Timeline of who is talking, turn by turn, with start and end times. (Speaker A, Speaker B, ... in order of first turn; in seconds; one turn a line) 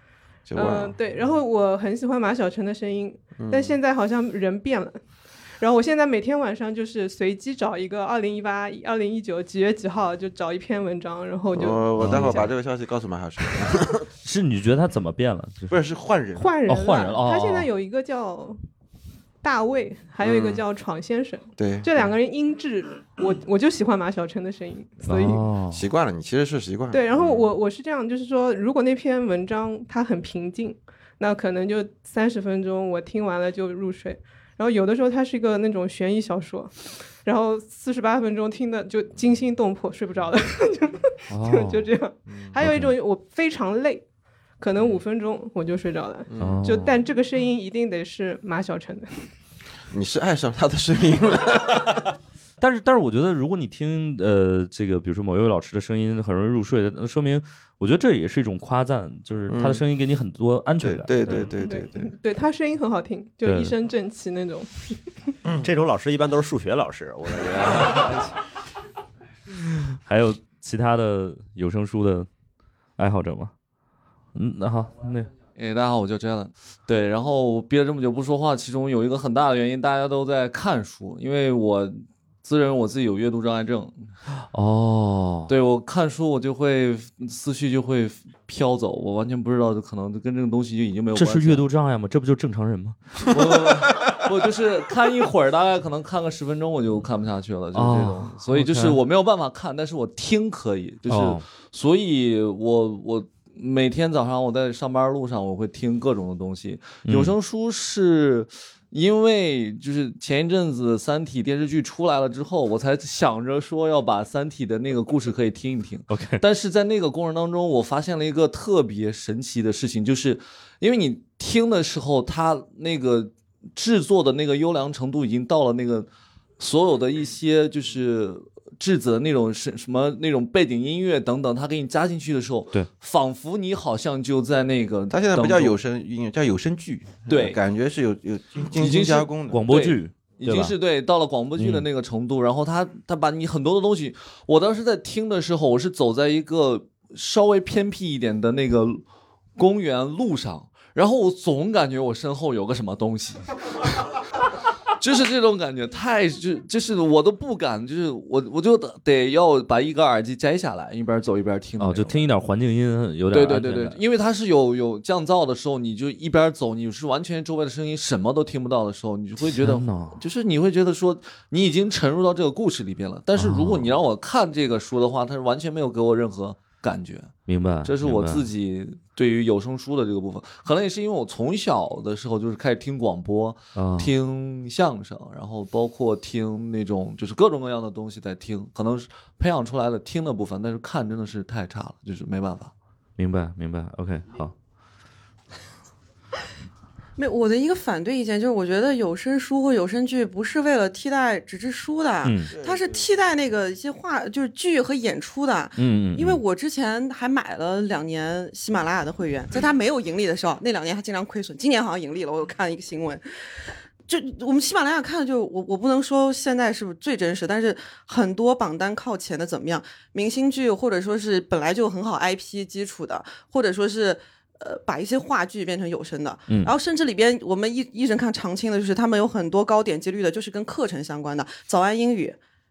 Speaker A: 0.5-1.0
Speaker B: 0.5-5.0
Speaker A: 3.4-3.8
Speaker B: 5.6-12.5
Speaker A: 11.5-14.1
Speaker C: 11.9-12.5
Speaker C: 14.2-15.8
Speaker A: 15.7-16.5
Speaker B: 16.4-18.6
Speaker C: 16.6-17.7
Speaker B: 19.4-25.4
Speaker A: 20.2-20.6
Speaker A: 21.6-22.1
Speaker C: 25.0-25.8
Speaker A: 25.7-27.4
Speaker B: 26.9-44.0
Speaker C: 41.3-41.9
Speaker A: 42.3-42.6
Speaker C: 42.6-42.9
Speaker B: 44.6-49.3
Speaker A: 46.3-46.7
Speaker C: 46.4-47.0
Speaker A: 49.9-52.1
Speaker C: 52.6-61.5
Speaker A: 59.5-59.8
Speaker A: 60.8-62.1
Speaker B: 61.5-64.9
Speaker C: 63.4-63.8
Speaker D: 65.6-68.2
Speaker C: 70.0-72.3
Speaker C: 73.0-73.5
Speaker C: 74.3-75.3
Speaker E: 75.5-84.1
Speaker C: 84.5-85.5
Speaker E: 85.5-91.7
Speaker C: 91.1-93.4
Speaker E: 93.3-135.7
Speaker C: 97.7-99.0
Speaker C: 101.1-101.5
Speaker C: 107.0-107.3
Speaker C: 116.1-116.4
Speaker A: 135.1-139.7
Speaker E: 137.3-137.6
Speaker E: 138.8-149.0
Speaker C: 139.5-140.7
Speaker C: 141.6-141.8
Speaker E: 149.6-153.4
Speaker E: 155.0-162.3
Speaker C: 161.8-164.0
Speaker E: 163.3-192.7
Speaker C: 169.6-170.2
Speaker C: 173.3-173.9
Speaker C: 177.4-178.5
Speaker C: 183.7-184.1
Speaker C: 193.2-194.5
Speaker F: 197.2-213.2
Speaker C: 202.2-202.5
Speaker A: 202.5-203.0
Speaker C: 205.8-206.4
Speaker F: 214.1-232.4
Speaker C: 226.5-226.7